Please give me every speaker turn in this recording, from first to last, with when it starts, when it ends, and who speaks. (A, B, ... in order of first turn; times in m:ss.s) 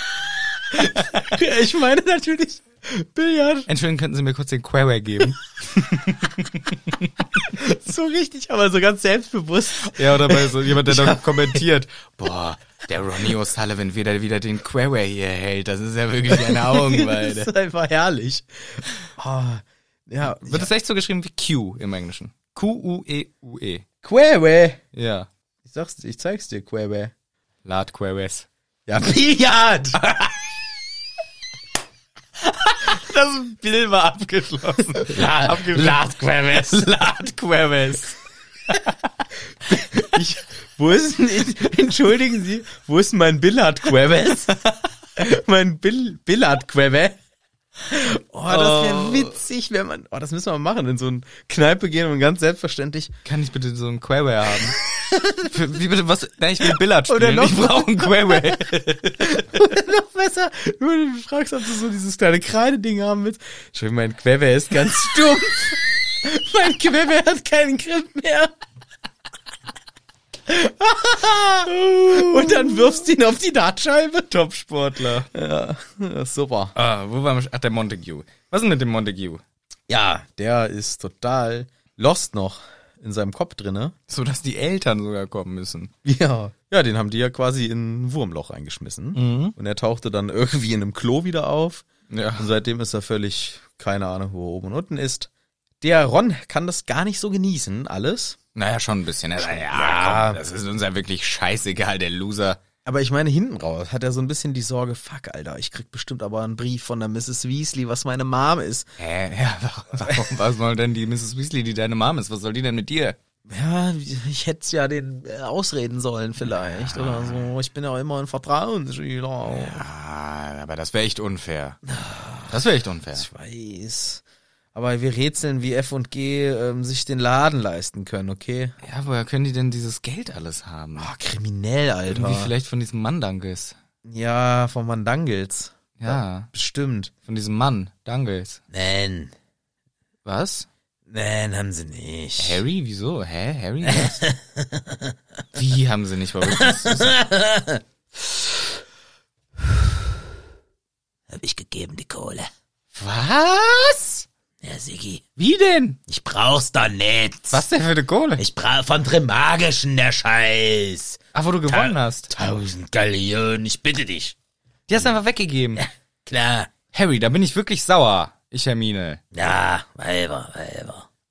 0:00.7-0:03.7 A
0:00.7-0:01.2 B
0:03.7-0:07.2 B
0:07.5-0:11.6 A
0:09.8-0:17.5 B
0:16.3-0:20.7 A
0:20.4-0:23.8 B
0:24.0-0:24.8 A
0:24.9-0:25.3 B
0:25.6-0:27.1 A
0:27.6-0:28.5 B
0:28.9-0:30.4 A
0:32.4-0:36.1 B
0:35.0-0:38.1 A
0:38.7-0:38.9 B
0:39.7-0:44.6 A
0:45.2-0:47.2 A
0:47.9-0:53.1 A
0:48.5-0:49.4 B
0:53.2-0:54.8 B
0:55.1-0:55.5 A
0:55.4-0:59.6 B
0:56.7-1:08.5 A
1:10.4-1:16.7 A
1:11.7-1:13.0 B
1:14.4-1:15.3 B
1:16.7-1:19.4 B
1:19.9-1:23.9 A
1:24.1-1:25.9 B
1:26.0-1:35.3 A
1:29.1-1:29.5 B
1:32.1-1:32.5 B
1:35.8-1:38.4 A
1:38.5-1:42.6 B
1:39.4-1:40.4 A
1:42.8-1:49.0 A
1:49.0-1:53.2 B
1:53.5-1:59.8 A
1:56.5-1:57.5 B
1:59.4-2:01.8 B
2:01.9-2:02.6 A
2:02.5-2:03.3 B
2:03.1-2:04.2 A
2:04.7-2:08.8 A
2:08.8-2:11.1 B
2:11.0-2:12.5 A
2:12.1-2:13.8 B
2:14.0-2:17.1 A
2:16.0-2:16.5 B
2:17.2-2:18.6 B
2:18.7-2:19.3 A
2:20.2-2:20.7 B
2:21.1-2:22.6 A
2:22.4-2:24.2 B
2:23.8-2:25.0 A
2:25.5-2:27.2 B
2:26.5-2:28.3 A
2:31.3-2:32.5 A
2:32.9-2:34.2 B
2:34.6-2:35.2 A
2:35.4-2:36.0 B
2:36.1-2:37.6 A
2:37.5-2:38.4 B
2:38.4-2:44.3 A
2:41.3-2:42.3 B
2:44.9-2:45.8 B
2:45.8-2:46.7 A
2:46.9-2:49.2 B
2:49.3-2:51.1 A